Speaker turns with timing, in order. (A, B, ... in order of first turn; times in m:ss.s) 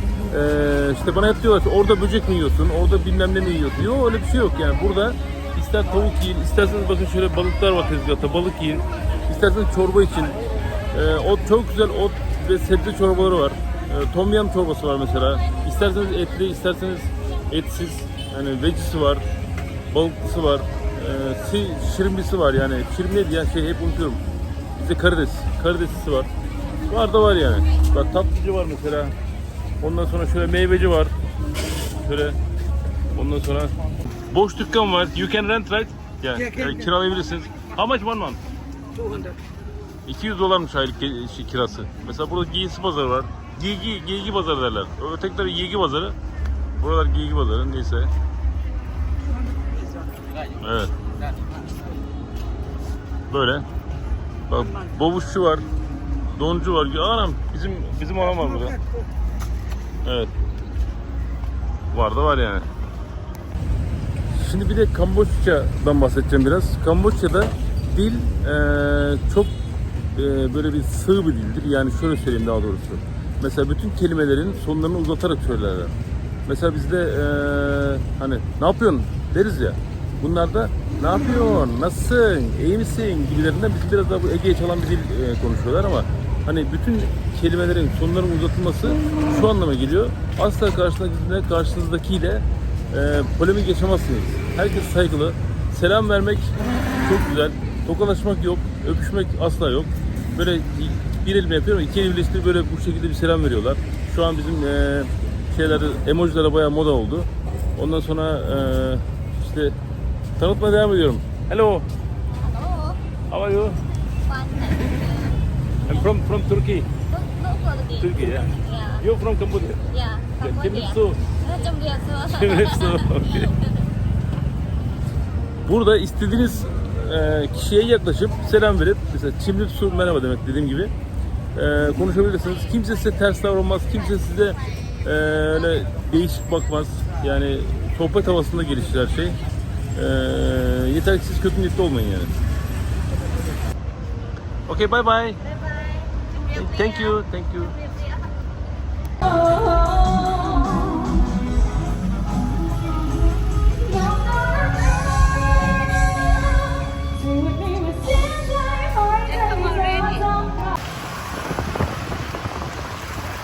0:00.3-0:10.4 A
0:10.9-0:19.2 A
0:19.9-0:24.2 A
0:24.8-0:26.3 A
0:26.9-0:29.2 A
0:29.8-0:31.2 A
0:31.9-0:32.4 A
0:33.1-0:33.7 A
0:34.3-0:38.4 A
0:36.4-0:36.9 B
0:38.9-0:39.4 B
0:40.0-0:46.2 A
0:46.8-0:48.1 A
0:49.2-0:50.6 B
0:50.6-0:50.9 A
0:53.3-0:53.6 A
0:54.5-0:55.6 A
0:56.3-0:58.8 A
0:58.2-0:59.1 B
1:00.0-1:00.3 A
1:01.9-1:02.7 A
1:04.3-1:09.5 A
1:10.1-1:15.9 A
1:16.5-1:49.8 A
1:50.4-1:51.9 A
1:52.4-1:53.0 C
1:53.3-1:53.8 A
1:54.3-1:55.4 C
1:55.9-1:56.9 A
1:57.1-1:59.0 C
1:58.0-1:59.8 A
1:59.9-2:03.8 C
2:00.4-2:01.2 A
2:02.2-2:03.5 A
2:05.7-2:10.9 A
2:11.6-2:19.4 A
2:19.9-2:22.3 A
2:24.7-2:25.4 A
2:26.5-2:27.8 A
2:29.7-2:31.0 C
2:33.9-2:40.6 C